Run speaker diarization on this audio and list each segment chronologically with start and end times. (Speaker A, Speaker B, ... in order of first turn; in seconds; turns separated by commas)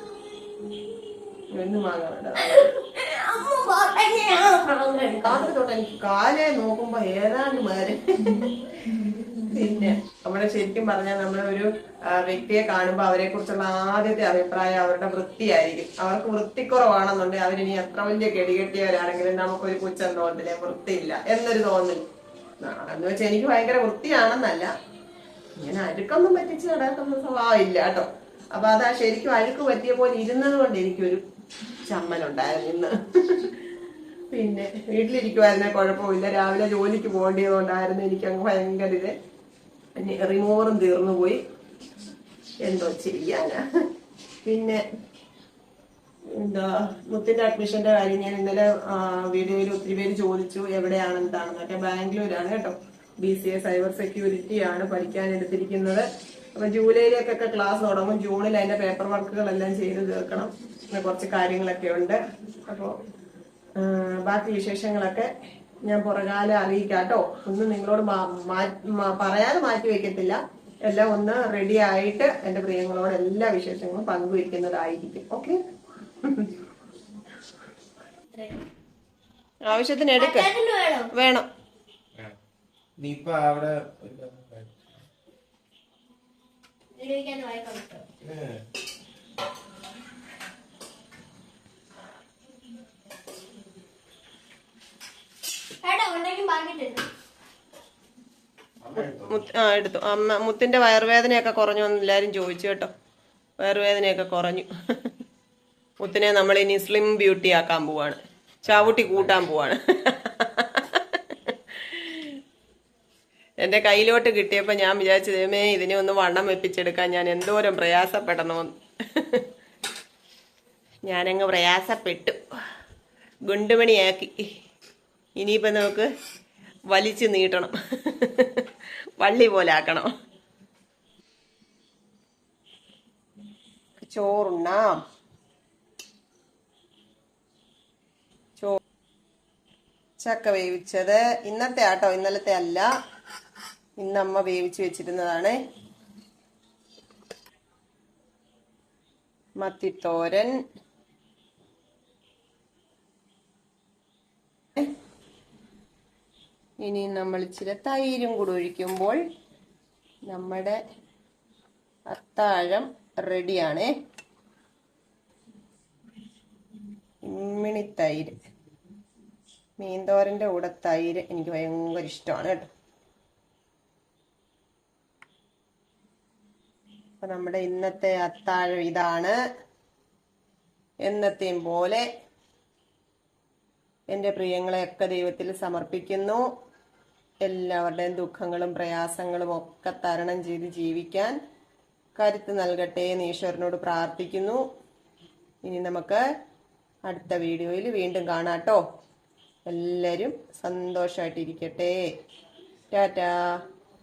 Speaker A: 1.5-2.7, Speaker B: 2.4-5.5, Speaker A: 5.2-8.5, Speaker A: 9.4-22.0, Speaker A: 22.6-24.7, Speaker A: 25.6-31.2, Speaker A: 31.9-33.5, Speaker A: 34.3-39.1, Speaker A: 40.0-41.4, Speaker A: 42.6-43.6, Speaker A: 44.4-44.8, Speaker A: 46.4-62.9, Speaker A: 63.8-65.3, Speaker A: 65.8-75.5, Speaker A: 76.2-76.5, Speaker B: 78.3-78.6, Speaker A: 79.7-80.5, Speaker B: 80.2-81.1, Speaker A: 81.1-81.5, Speaker C: 83.0-84.7, Speaker B: 86.9-88.0, Speaker C: 88.2-88.6, Speaker B: 95.8-97.0, Speaker C: 98.8-99.3, Speaker A: 99.0-102.9, Speaker A: 103.6-104.7, Speaker A: 106.0-112.3, Speaker C: 108.7-109.3, Speaker A: 113.6-119.4, Speaker A: 121.1-122.4, Speaker A: 123.5-124.4, Speaker A: 125.4-126.1, Speaker A: 126.9-128.7, Speaker A: 129.2-130.1, Speaker A: 134.0-135.0, Speaker A: 140.2-142.9, Speaker A: 144.0-145.6, Speaker A: 149.6-150.5, Speaker A: 156.8-159.2, Speaker A: 160.3-160.8, Speaker A: 162.1-163.9, Speaker A: 167.2-168.3, Speaker A: 169.8-172.7, Speaker A: 177.2-179.3, Speaker A: 181.0-182.0, Speaker A: 184.1-186.4, Speaker A: 187.4-191.3, Speaker A: 192.2-194.6, Speaker A: 195.6-196.2, Speaker A: 197.1-198.8, Speaker A: 199.7-201.9, Speaker A: 202.9-203.4